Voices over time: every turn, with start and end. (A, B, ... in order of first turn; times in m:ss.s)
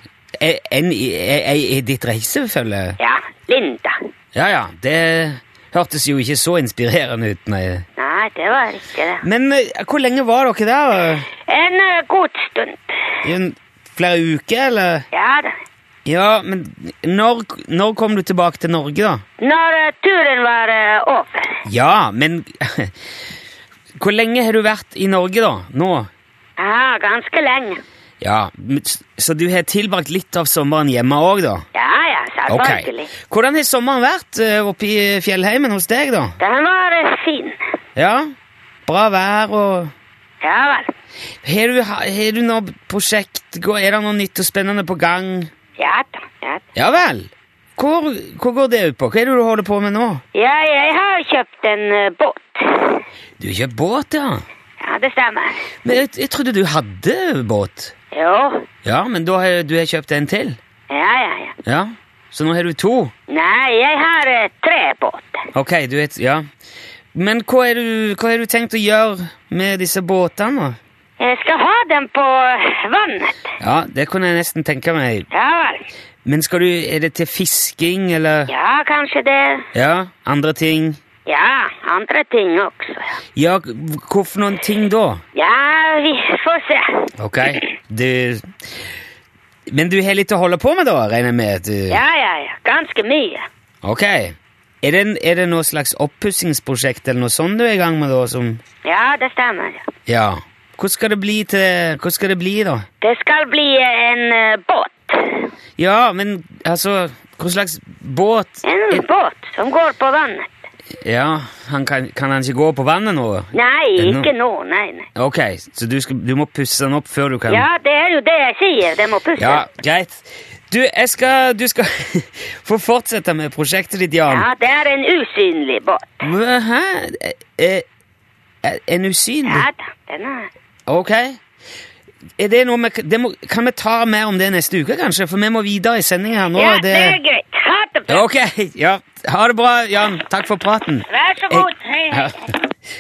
0:00.4-0:03.0 A
0:03.0-0:04.0 B
0:04.3-0:07.8 A
0:08.0-0:09.2 B
0:09.2-0:11.3 A
0:11.5-0:12.9 B
0:13.2-0:15.1 A
0:15.1-0:15.6 B
0:16.1-0:19.2 A
0:19.4-0:21.6 B
0:21.7-0:22.9 A
0:24.0-0:26.1 A
0:26.6-0:27.8 B
0:28.2-0:31.6 A
0:31.7-0:33.1 B
0:32.5-0:36.4 A
0:36.4-0:37.6 B
0:38.0-0:38.3 A
0:38.9-0:39.9 A
0:40.4-0:40.9 B
0:41.4-0:45.5 A
0:45.8-0:46.6 B
0:46.8-0:50.2 A
0:50.3-0:53.0 B
0:53.4-0:54.4 A
0:54.8-0:55.7 B
0:55.8-0:57.9 A
0:58.1-0:58.6 B
0:58.8-1:00.6 A
1:00.9-1:01.6 B
1:01.6-1:03.1 A
1:03.3-1:05.4 B
1:05.5-1:06.4 A
1:07.1-1:10.8 A
1:11.2-1:13.5 B
1:13.6-1:15.3 A
1:15.3-1:15.9 B
1:16.2-1:18.5 A
1:18.5-1:19.7 B
1:19.7-1:21.0 A
1:21.3-1:23.2 B
1:23.4-1:25.2 A
1:25.4-1:27.6 B
1:27.2-1:28.4 A
1:29.7-1:32.0 A
1:31.9-1:33.5 B
1:33.8-1:38.6 A
1:38.8-1:39.8 B
1:40.1-1:42.9 A
1:43.0-1:45.5 B
1:45.8-1:49.0 A
1:48.6-1:50.5 B
1:51.0-1:54.3 A
1:53.5-1:55.1 B
1:55.2-1:57.7 A
1:57.5-1:59.6 B
1:59.4-2:04.5 A
2:04.3-2:06.2 B
2:06.2-2:07.8 A
2:08.6-2:09.7 A
2:09.4-2:10.5 B
2:10.9-2:11.4 A
2:12.4-2:17.2 A
2:16.5-2:18.2 B
2:18.1-2:22.6 A
2:21.1-2:22.5 B